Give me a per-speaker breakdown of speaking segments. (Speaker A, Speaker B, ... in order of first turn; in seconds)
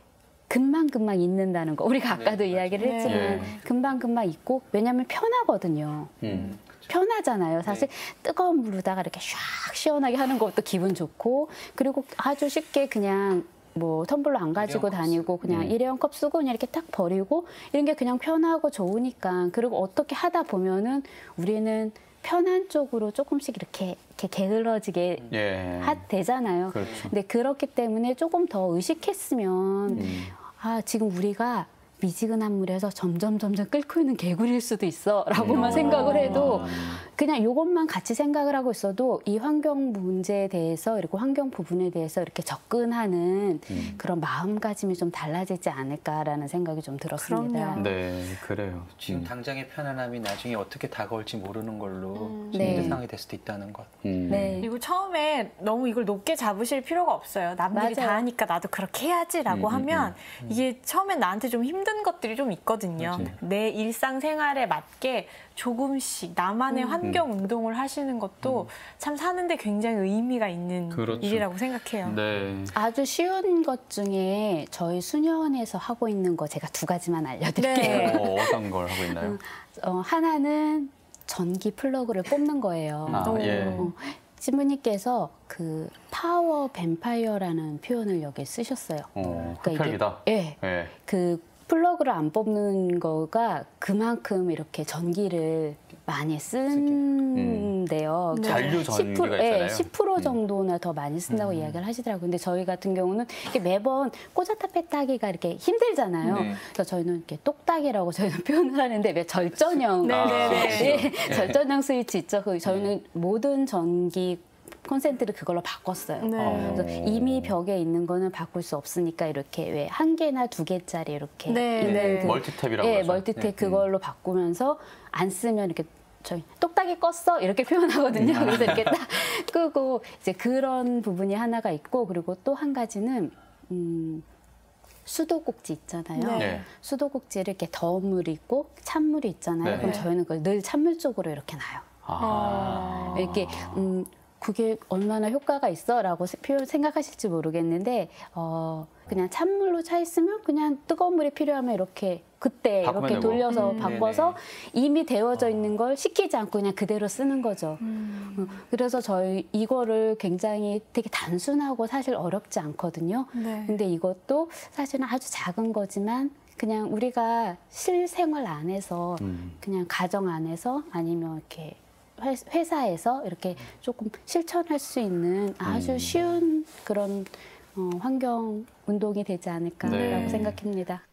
Speaker A: 0.5-47.9, 52.5-53.0, 54.3-54.7, 57.7-58.3, 66.7-67.0, 72.7-134.2, 135.1-141.9, 142.4-181.0
Speaker B: 2.1-3.6, 6.2-6.9, 14.6-15.3, 35.7-36.1, 49.0-54.5, 63.0-63.4, 83.1-83.4, 96.7-97.0, 106.3-106.6, 116.4-116.7, 128.2-128.9, 142.3-143.0, 153.8-154.3
Speaker C: 2.8-3.6, 36.2-36.5, 47.2-47.9, 52.2-52.5, 54.6-72.2, 77.6-78.3, 83.2-83.9, 98.3-98.8, 110.0-111.0, 116.2-116.8, 121.5-122.4, 136.2-136.6, 139.7-140.1, 142.2-143.2, 153.5-154.0, 157.8-158.6, 163.3-163.8, 179.9-180.6
Speaker D: 3.0-3.5, 6.2-6.5, 15.5-15.8, 25.3-26.0, 26.7-27.1, 29.9-30.3, 35.3-37.0, 43.7-44.0, 47.8-49.3, 52.5-53.0, 54.0-54.6, 59.5-60.2, 70.9-72.8, 77.8-79.4, 83.1-83.9, 89.2-90.9, 97.3-97.8, 98.3-100.4, 110.1-111.6, 116.4-117.5, 121.8-123.9, 128.4-128.8, 136.3-136.7, 139.6-140.0, 142.1-143.8, 152.8-154.3, 169.2-169.6, 175.6-176.2, 179.8-180.6